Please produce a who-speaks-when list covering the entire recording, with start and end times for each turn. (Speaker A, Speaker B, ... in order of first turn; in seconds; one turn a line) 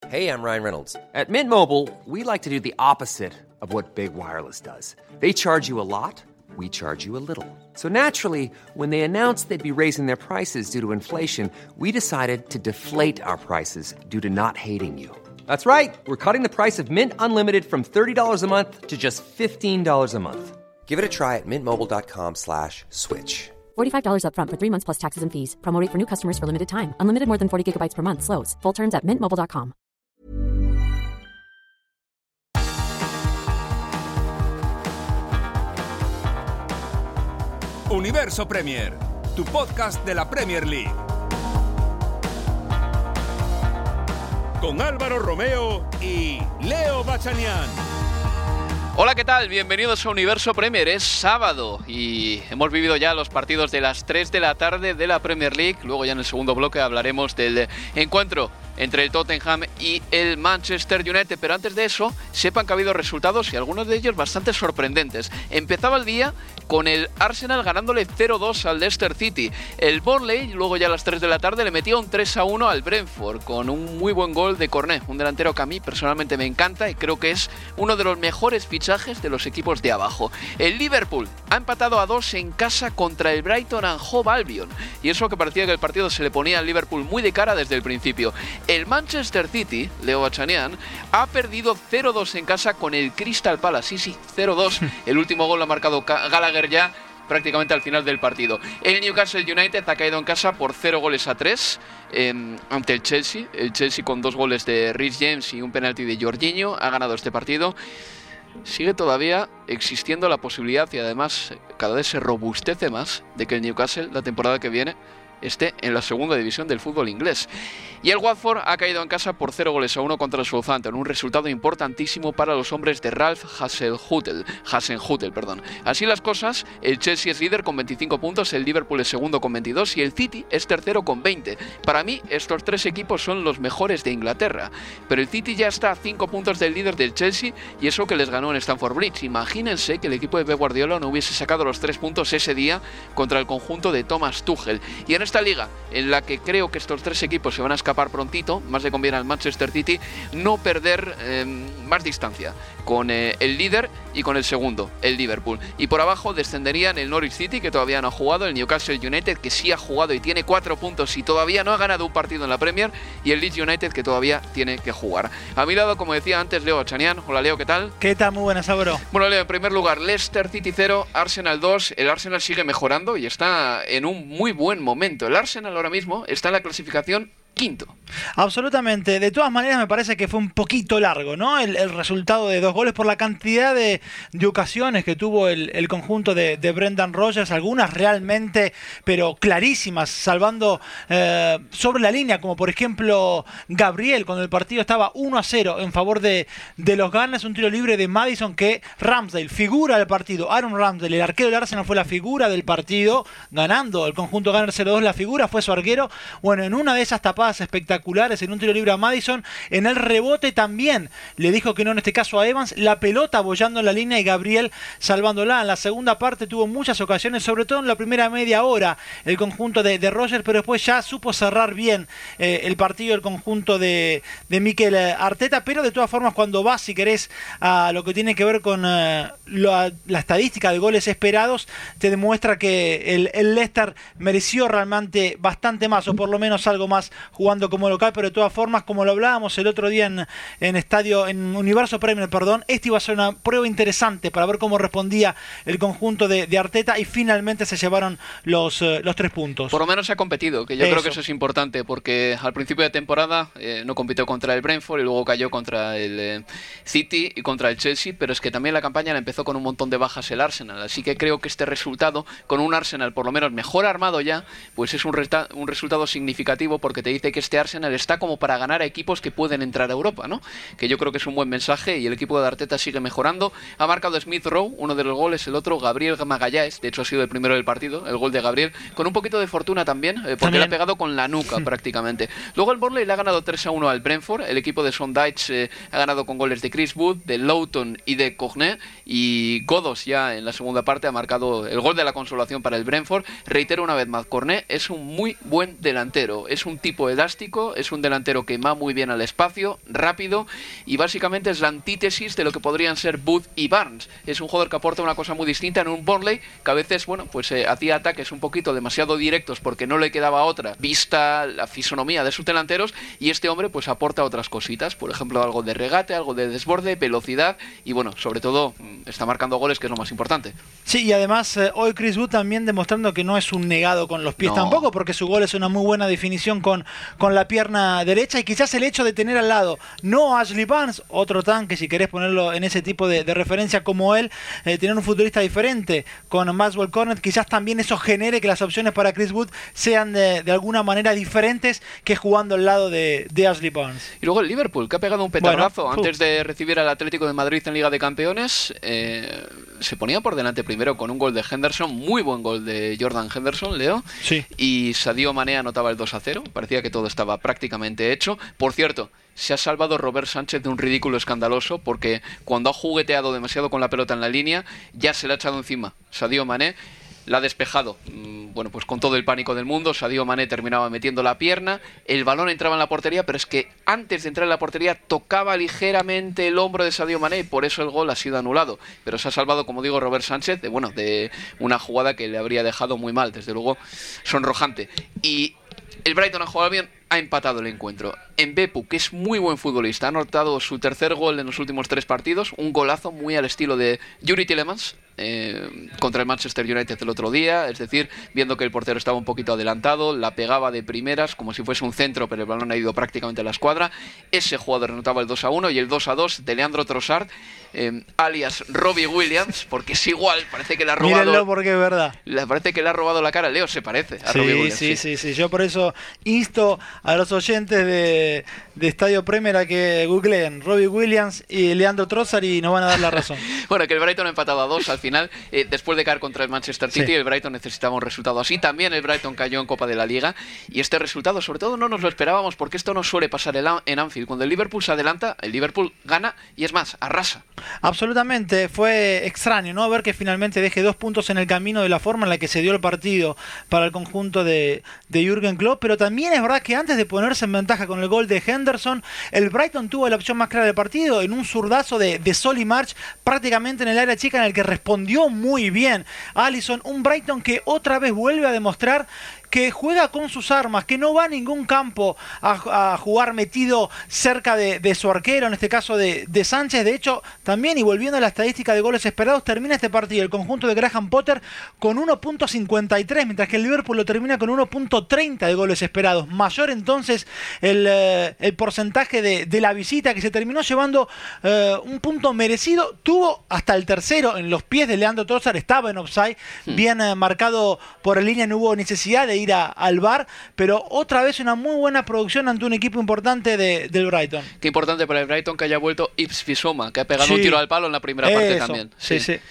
Speaker A: 0.1-23.6
Speaker B: 23.8-29.7
Speaker C: 37.9-41.0
Speaker C: 44.6-47.8
Speaker D: 49.0-107.8
Speaker D: 108.6-117.5
Speaker D: 118.0-167.9
Speaker E: 168.0-169.0
Speaker D: 169.1-177.9
Speaker E: 178.4-249.8
Speaker D: 249.7-320.5
Speaker E: 250.8-251.2
Speaker E: 280.4-280.8
Speaker E: 320.9-344.1
Speaker D: 324.4-324.9
Speaker D: 344.2-354.1
Speaker E: 345.4-346.1
Speaker D: 354.6-366.8
Speaker D: 367.3-411.4
Speaker E: 411.0-412.2
Speaker D: 412.3-415.0
Speaker E: 414.3-423.4
Speaker D: 423.1-437.4
Speaker E: 437.8-494.5
Speaker D: 494.6-499.3
Speaker E: 497.2-497.6
Speaker E: 498.2-499.4